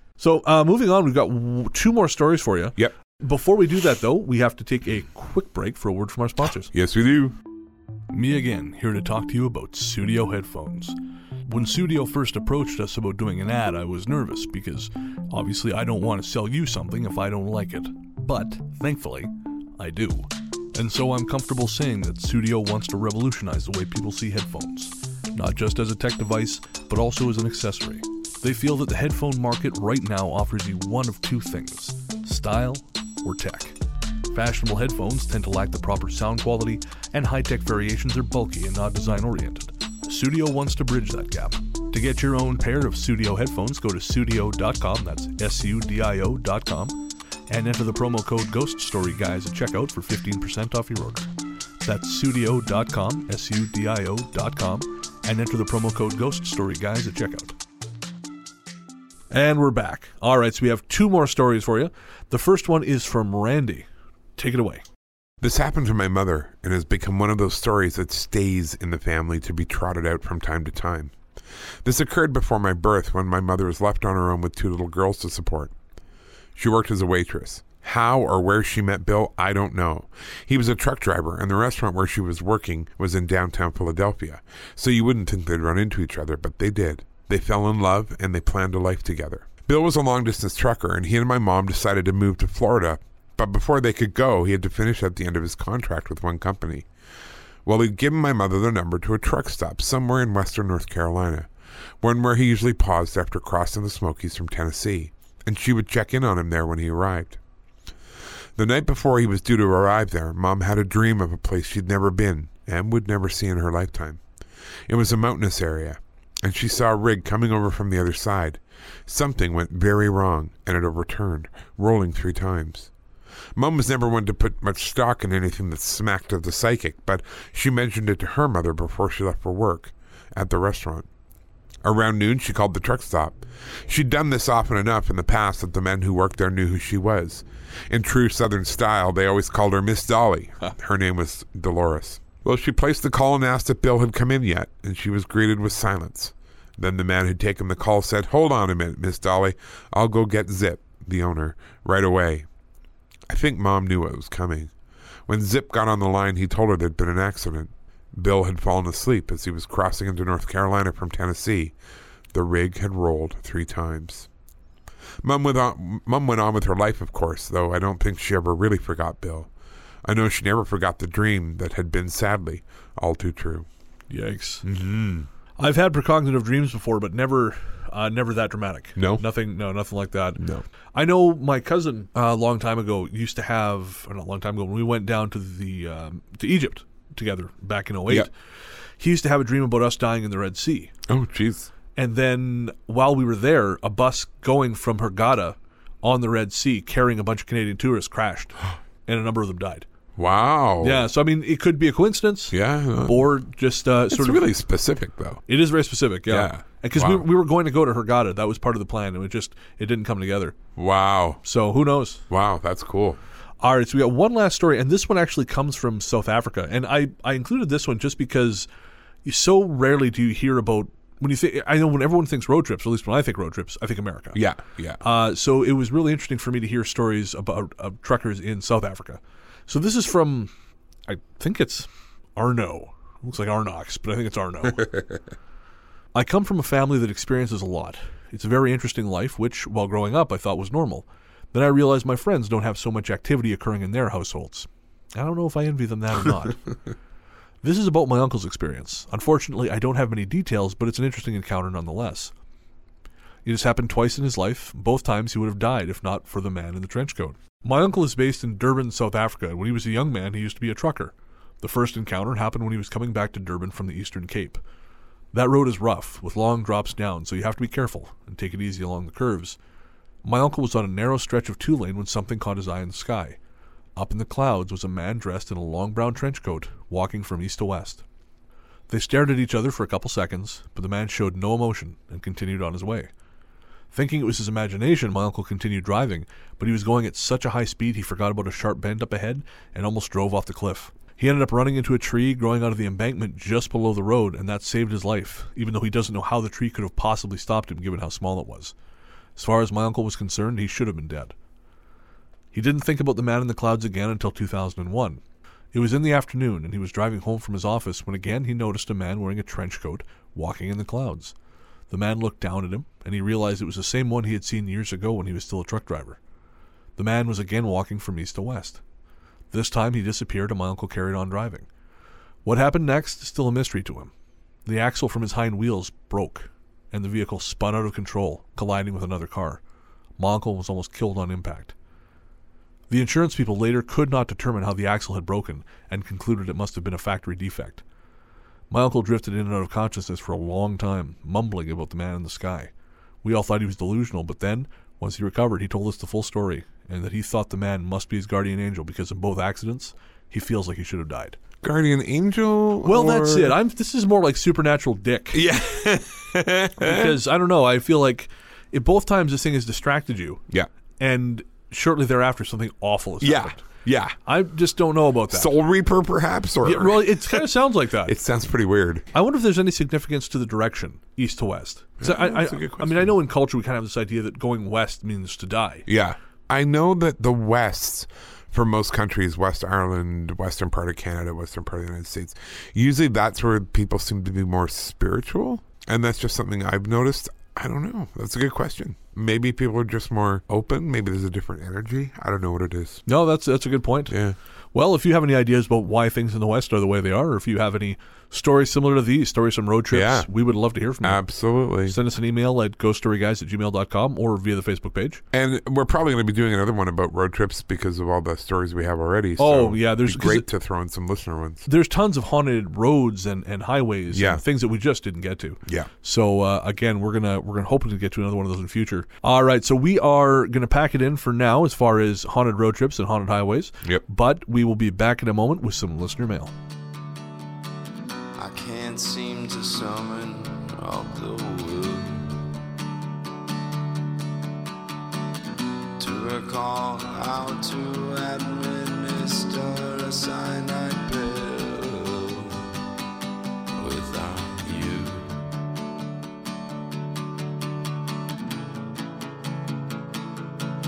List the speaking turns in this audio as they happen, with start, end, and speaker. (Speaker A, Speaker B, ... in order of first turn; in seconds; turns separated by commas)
Speaker A: 0.2-6.7, Speaker B: 6.7-7.4, Speaker A: 8.1-11.0, Speaker A: 11.5-33.8, Speaker A: 34.3-47.0, Speaker A: 47.5-51.3, Speaker A: 51.9-57.6, Speaker A: 59.3-63.9, Speaker A: 64.4-64.8, Speaker B: 65.4-71.1, Speaker B: 71.8-75.7, Speaker B: 76.6-96.9, Speaker B: 97.7-101.5, Speaker B: 102.0-107.4, Speaker B: 108.6-114.2, Speaker B: 114.9-122.9, Speaker B: 123.5-131.1, Speaker B: 131.8-152.5, Speaker B: 153.3-154.7, Speaker B: 155.3-161.8, Speaker B: 162.3-164.3, Speaker B: 165.2-169.5, Speaker B: 170.1-173.7, Speaker A: 174.1-174.7, Speaker B: 174.6-175.3, Speaker A: 175.6-180.4, Speaker B: 179.0-179.2, Speaker B: 180.4-180.6, Speaker A: 180.9-188.3, Speaker A: 189.0-190.9, Speaker B: 191.1-191.7, Speaker A: 192.0-199.8, Speaker B: 200.2-201.1, Speaker A: 200.8-204.5, Speaker B: 202.5-203.3, Speaker B: 204.1-205.4, Speaker A: 205.5-210.6, Speaker B: 206.3-207.2, Speaker B: 210.8-211.4, Speaker A: 211.4-212.2, Speaker B: 212.3-213.2, Speaker A: 213.6-218.7, Speaker A: 219.2-224.4, Speaker B: 224.3-225.0, Speaker A: 225.0-230.5, Speaker A: 231.1-234.9, Speaker A: 236.1-246.6, Speaker A: 247.6-252.3, Speaker A: 253.4-264.6, Speaker A: 265.3-269.6, Speaker A: 270.2-273.4, Speaker A: 274.0-278.0, Speaker A: 278.9-283.1, Speaker A: 283.9-298.7, Speaker A: 299.4-301.3, Speaker A: 302.5-305.2, Speaker A: 305.7-311.3, Speaker A: 311.9-316.2, Speaker A: 317.0-318.8, Speaker A: 319.5-321.7, Speaker A: 322.4-324.1, Speaker A: 324.7-329.6, Speaker A: 330.2-331.7, Speaker A: 332.9-337.8, Speaker A: 338.7-342.7, Speaker A: 343.2-351.4, Speaker B: 351.6-353.6, Speaker A: 352.8-355.5, Speaker B: 355.3-357.2, Speaker A: 356.8-360.4, Speaker A: 361.0-363.7, Speaker B: 363.2-364.2, Speaker A: 364.3-365.5, Speaker B: 365.3-367.5, Speaker A: 366.6-368.2, Speaker B: 368.1-369.1, Speaker A: 369.1-375.9, Speaker B: 372.0-373.1, Speaker B: 375.9-393.0, Speaker A: 393.1-394.1, Speaker B: 394.1-394.4, Speaker A: 394.7-401.2, Speaker B: 399.9-400.3, Speaker B: 401.0-402.0, Speaker A: 401.9-405.2, Speaker B: 405.3-411.7, Speaker A: 409.4-410.5, Speaker A: 411.7-426.5, Speaker B: 414.1-414.4, Speaker C: 428.4-432.4, Speaker C: 436.0-442.7, Speaker C: 443.8-445.4